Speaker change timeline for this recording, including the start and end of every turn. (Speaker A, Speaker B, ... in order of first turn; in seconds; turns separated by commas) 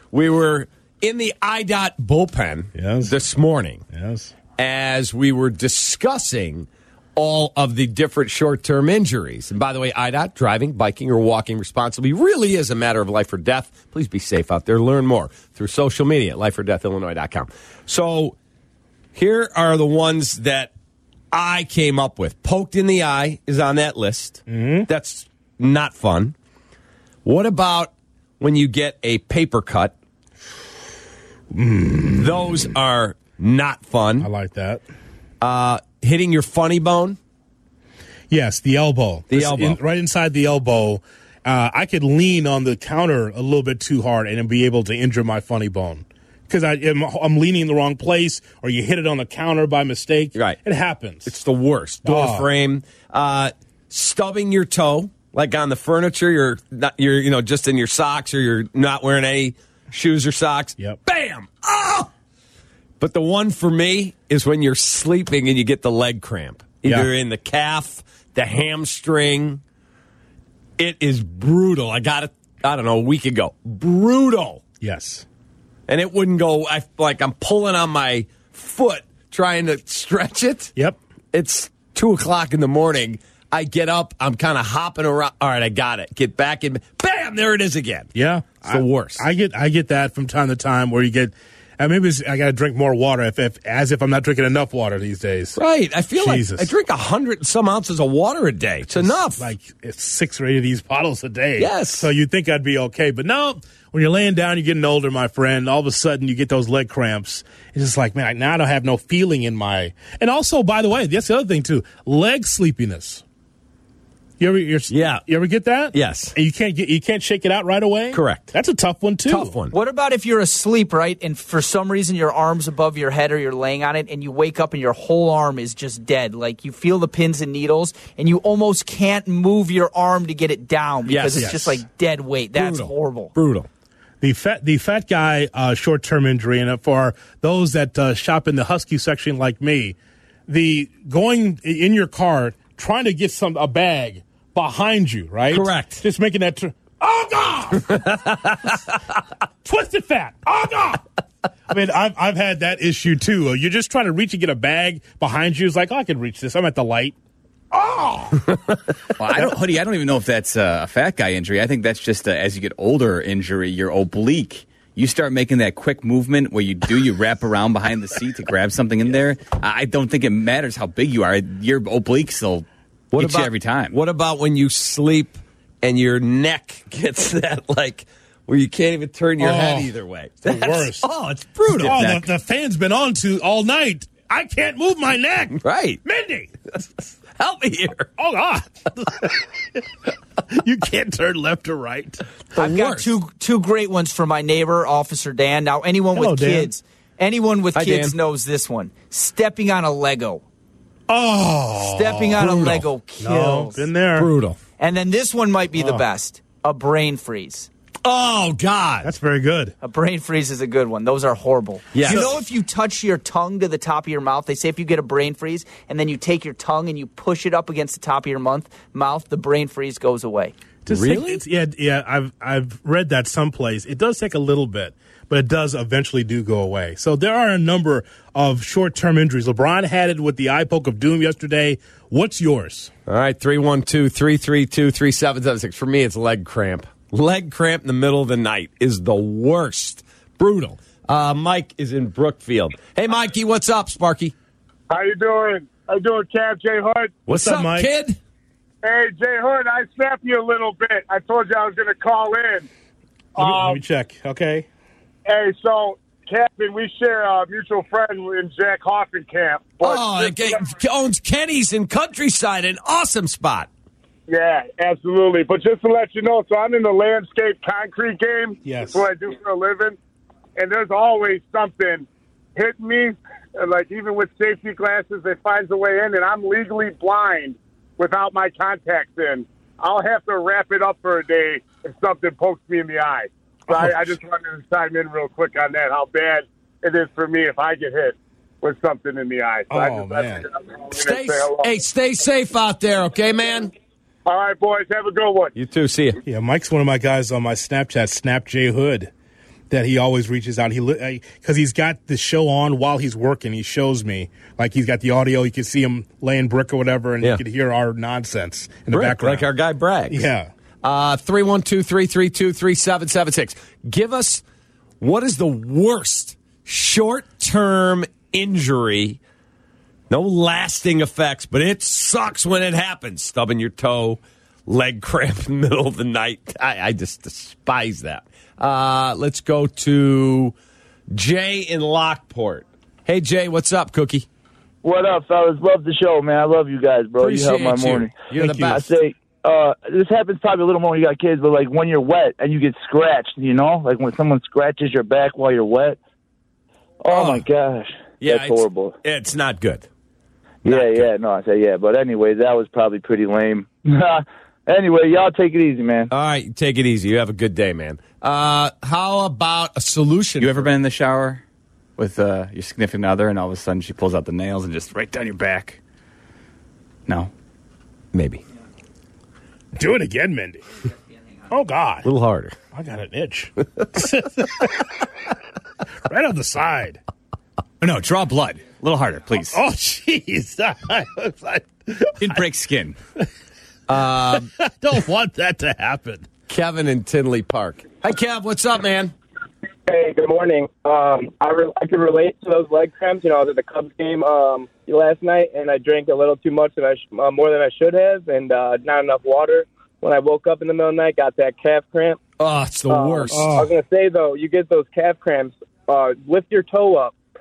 Speaker A: 0.1-3.8, Speaker B: 2.8-3.2, Speaker B: 3.9-4.3, Speaker A: 4.6-18.4, Speaker A: 19.1-20.7, Speaker A: 21.3-26.4, Speaker B: 24.5-24.9, Speaker A: 27.2-29.9, Speaker B: 31.5-32.3, Speaker A: 32.2-34.3, Speaker B: 34.2-34.8, Speaker A: 35.4-37.2, Speaker B: 38.3-51.3, Speaker A: 39.3-39.8, Speaker A: 51.2-62.1, Speaker B: 52.0-52.5, Speaker A: 63.0-69.6, Speaker B: 66.8-67.1, Speaker A: 70.8-74.6, Speaker B: 74.8-75.2, Speaker A: 75.9-80.7, Speaker A: 81.3-88.1, Speaker B: 88.2-95.6, Speaker A: 88.6-89.2, Speaker A: 95.6-99.5, Speaker B: 96.2-96.7, Speaker B: 99.0-113.2, Speaker A: 101.6-102.1, Speaker B: 114.4-119.5, Speaker A: 114.9-115.2, Speaker A: 115.9-116.3, Speaker A: 118.1-118.5, Speaker A: 119.2-119.8, Speaker C: 119.7-133.3, Speaker A: 131.1-131.6, Speaker B: 131.4-131.8, Speaker A: 132.6-133.7, Speaker B: 134.2-140.0, Speaker B: 140.5-148.6, Speaker A: 145.5-146.0, Speaker A: 147.9-148.6, Speaker B: 149.6-151.1, Speaker B: 151.7-157.2, Speaker B: 157.7-158.6, Speaker D: 159.2-173.9, Speaker A: 173.1-182.0, Speaker B: 179.4-181.1, Speaker B: 181.7-186.5, Speaker D: 181.8-182.3, Speaker A: 185.6-186.0, Speaker A: 187.4-188.1, Speaker B: 188.2-189.8, Speaker B: 190.5-192.2, Speaker A: 192.5-193.2, Speaker C: 192.6-200.4, Speaker B: 196.2-196.7, Speaker A: 197.8-198.1, Speaker B: 201.1-202.6, Speaker C: 201.8-203.9, Speaker A: 202.4-202.8, Speaker B: 203.2-204.3, Speaker A: 204.2-204.6, Speaker C: 204.8-207.7, Speaker B: 205.8-206.0, Speaker A: 208.0-209.1, Speaker B: 209.0-209.7, Speaker C: 209.8-220.5, Speaker A: 211.9-212.3, Speaker B: 212.1-212.3, Speaker B: 220.8-232.9, Speaker A: 220.9-221.4, Speaker A: 233.1-244.3, Speaker E: 244.9-247.3, Speaker A: 247.3-248.2, Speaker B: 247.3-247.9, Speaker E: 248.8-252.7, Speaker E: 253.3-253.8, Speaker B: 253.4-254.7, Speaker E: 255.3-260.7, Speaker A: 259.8-263.7, Speaker E: 264.3-270.0, Speaker B: 268.6-269.1, Speaker E: 270.6-291.7, Speaker B: 289.7-290.5, Speaker A: 290.9-293.7, Speaker E: 294.2-295.5, Speaker A: 295.6-296.2, Speaker B: 296.2-299.1, Speaker B: 299.7-309.5, Speaker A: 308.9-310.3, Speaker B: 310.1-310.5, Speaker A: 310.8-314.4, Speaker A: 315.0-319.2, Speaker A: 320.1-330.6, Speaker A: 331.1-334.3, Speaker F: 334.8-346.0, Speaker A: 337.2-338.9, Speaker B: 338.4-338.8, Speaker F: 347.0-349.0, Speaker A: 347.1-347.4, Speaker A: 348.2-349.9, Speaker F: 350.6-356.1, Speaker A: 350.7-351.1, Speaker A: 356.1-360.7, Speaker D: 360.4-361.4, Speaker D: 362.0-365.8, Speaker A: 368.1-368.4, Speaker B: 369.8-370.7, Speaker B: 371.5-372.1, Speaker A: 372.0-372.6, Speaker B: 372.7-375.0, Speaker B: 376.1-377.0, Speaker D: 377.8-379.6, Speaker B: 379.5-382.4, Speaker D: 382.2-383.0, Speaker A: 383.9-384.5, Speaker B: 384.4-386.3, Speaker A: 386.5-389.1, Speaker G: 389.9-402.2, Speaker A: 402.4-403.6, Speaker G: 402.9-407.1, Speaker B: 403.3-403.7